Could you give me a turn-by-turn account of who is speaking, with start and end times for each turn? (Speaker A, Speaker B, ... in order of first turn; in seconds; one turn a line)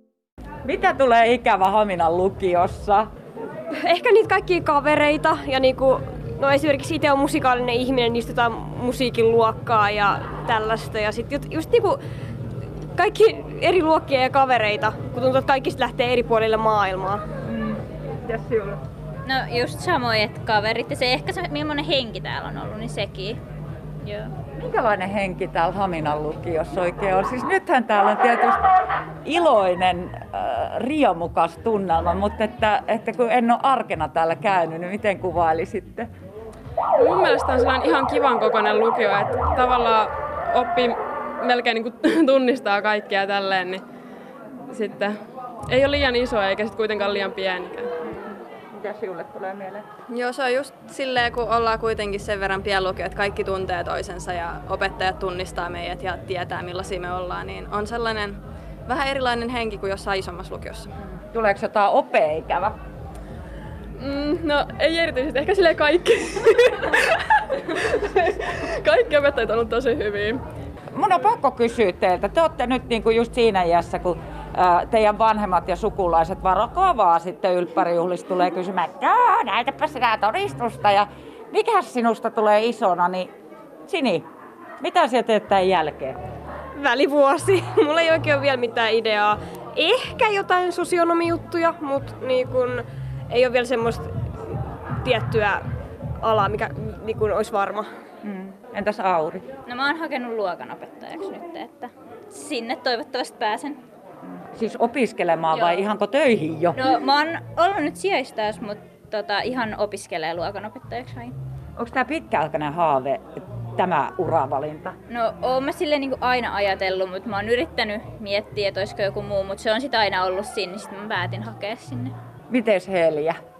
Speaker A: 0.6-3.1
Speaker B: 3.7-12.0
Speaker B: 12.9-17.2
Speaker A: 17.4-18.8
Speaker C: 19.2-23.4
Speaker C: 24.0-24.3
Speaker A: 24.6-28.6
Speaker A: 29.2-36.1
Speaker D: 37.0-43.8
Speaker D: 44.7-45.1
Speaker D: 45.7-47.9
Speaker A: 48.0-49.8
Speaker E: 50.1-60.9
Speaker A: 61.2-62.7
Speaker D: 64.0-70.4
Speaker A: 70.9-83.3
Speaker A: 83.9-84.2
Speaker A: 84.8-86.2
Speaker B: 86.7-95.6
Speaker B: 96.2-97.8
Speaker A: 98.2-99.4
Speaker C: 99.7-103.8
Speaker A: 104.2-106.8
Speaker C: 105.5-105.8
Speaker C: 106.7-111.3
Speaker A: 111.8-114.9
Speaker C: 115.1-122.1
Speaker A: 122.5-123.4